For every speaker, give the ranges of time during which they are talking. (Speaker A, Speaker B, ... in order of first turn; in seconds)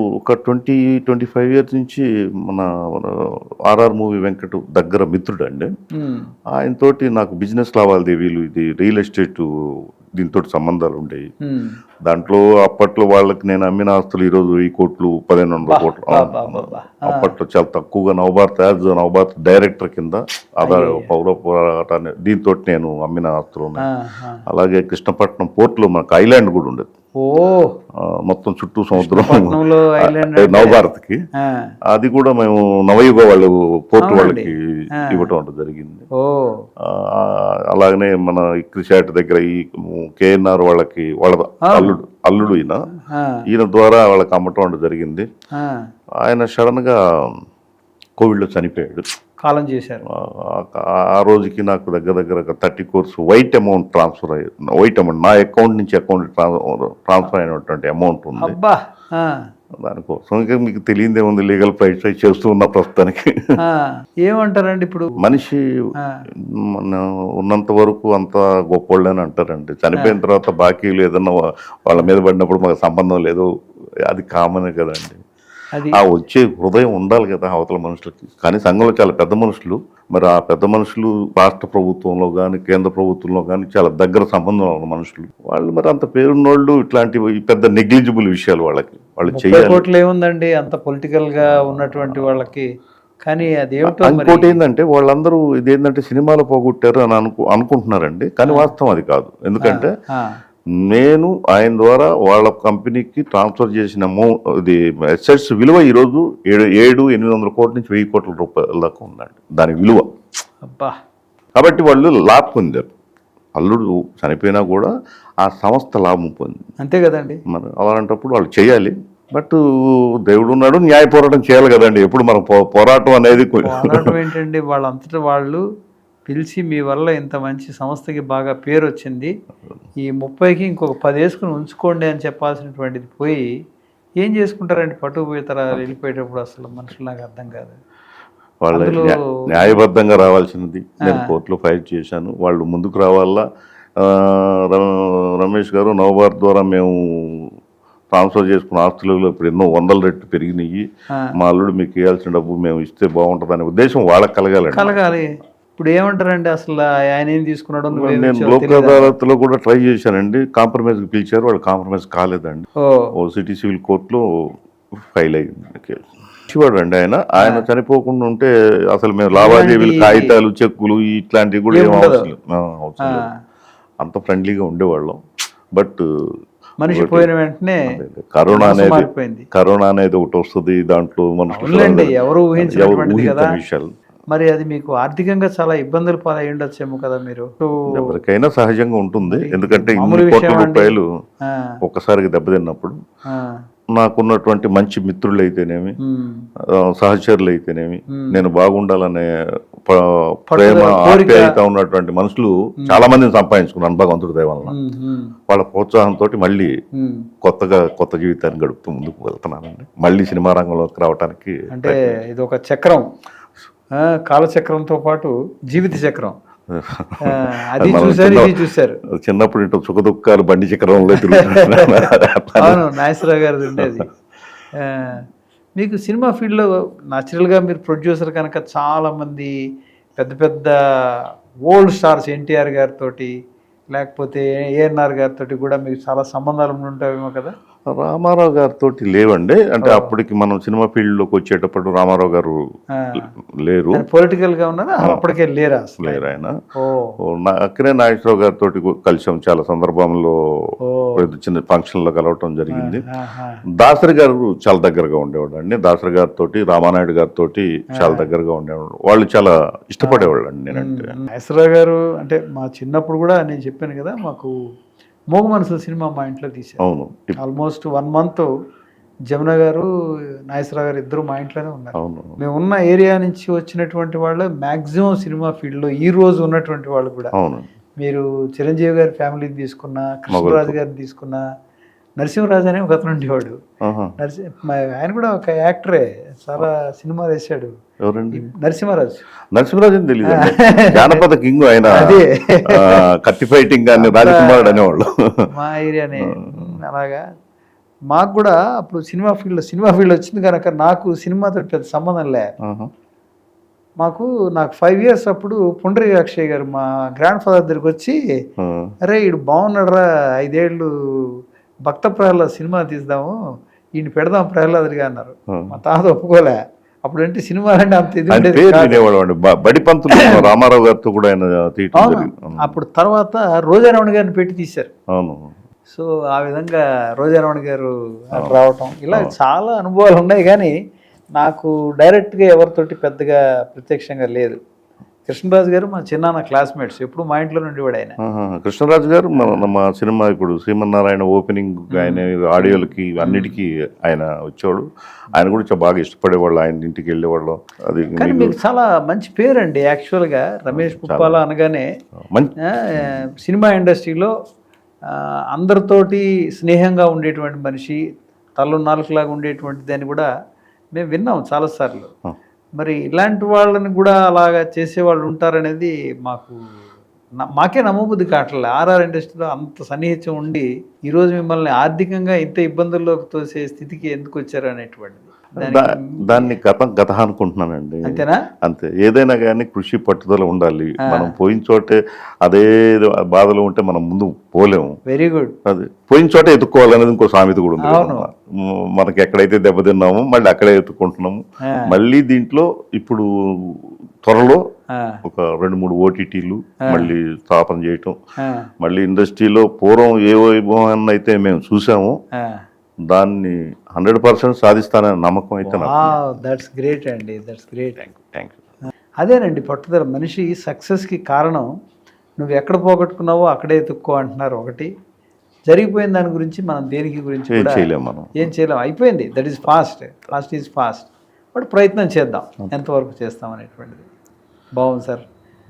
Speaker A: 0.2-5.7, 6.6-11.3, 12.1-23.9, 24.5-26.9, 27.9-31.2, 31.9-36.1, 36.8-42.8, 43.5-45.3, 46.2-47.4, 48.2-49.0, 50.1-58.5, 59.8-63.4, 65.2-65.6, 66.6-73.5, 74.1-75.2, 75.9-89.8, 91.5-92.5, 93.8-99.9, 100.8-110.1, 111.5-112.9, 113.5-114.9, 115.4-116.7, 117.5-124.1, 138.6-143.4, 144.0-147.6, 148.1-155.1, 157.9-164.2, 165.1-173.2, 174.0-175.2, 175.7-176.0, 176.9-177.3, 177.9-183.9, 187.9-191.1, 191.8-193.0, 193.9-195.9, 196.7-199.3, 199.8-204.7, 205.5-206.7, 207.4-212.2, 216.7-218.6, 219.1-222.8, 237.9-242.6, 243.6-244.0, 246.0-246.6, 247.2-253.0, 253.8-261.1, 266.8-267.4, 271.9-272.4, 277.4-277.7, 280.3-280.7, 283.8-284.1, 288.1-288.4, 289.5-295.1, 296.2-296.8, 302.6-302.9, 308.6-308.9, 318.3-322.7, 325.1-325.5, 338.2-348.5, 350.7-351.4, 352.3-353.2, 375.6-385.0, 385.6-394.6, 395.2-398.1, 398.8-402.2, 403.1-406.2, 408.0-408.6, 417.5-418.5
Speaker B: 5.9-6.3, 11.4-11.8, 15.7-17.3, 20.6-21.1, 23.8-24.4, 27.2-27.8, 28.9-30.8, 31.4-31.7, 34.0-35.3, 36.1-36.7, 41.6-42.0, 43.0-43.5, 45.5-45.9, 49.4-50.0, 58.4-59.4, 63.6-65.1, 66.0-66.2, 75.7-76.0, 89.3-92.7, 93.2-94.5, 98.4-98.7, 99.6-100.4, 110.6-110.9, 116.8-117.4, 123.6-125.6, 126.3-129.3, 130.0-133.5, 134.2-137.8, 138.7-139.8, 141.1-141.3, 154.7-159.1, 162.8-163.1, 167.4-167.6, 169.3-170.3, 171.7-172.3, 173.0-173.3, 176.8-177.9, 178.5-179.5, 181.5-183.6, 184.3-188.1, 189.2-191.8, 193.3-193.6, 196.0-196.4, 198.1-198.4, 200.5-201.5, 202.8-203.1, 204.7-205.3, 206.9-207.3, 211.7-213.0, 213.9-216.3, 217.2-219.0, 221.0-224.1, 224.8-225.2, 225.8-229.5, 230.2-233.3, 233.9-237.5, 239.8-240.1, 242.9-243.3, 243.9-247.2, 250.8-251.3, 252.7-253.6, 258.0-258.2, 260.0-264.5, 265.3-266.8, 267.4-268.5, 269.3-269.9, 270.5-277.3, 278.0-281.4, 282.2-283.6, 284.2-287.7, 288.3-289.2, 290.3-291.2, 291.9-293.1, 293.9-294.9, 295.5-297.2, 298.1-302.4, 304.0-308.2, 309.0-313.4, 314.0-319.1, 320.1-320.5, 321.9-324.9, 325.9-330.7, 331.4-334.6, 335.3-338.1, 341.9-343.6, 348.2-351.9, 352.7-354.3, 355.1-358.0, 358.6-360.3, 360.9-362.1, 362.8-366.6, 367.4-376.5, 378.0-378.4, 381.1-381.3, 385.1-385.6, 387.8-388.3, 391.6-391.9, 394.9-395.2, 396.8-397.1, 398.4-398.7, 402.4-402.6, 405.6-408.0, 409.2-411.7, 412.4-414.9, 415.7-417.9, 418.4-424.1, 424.8-425.2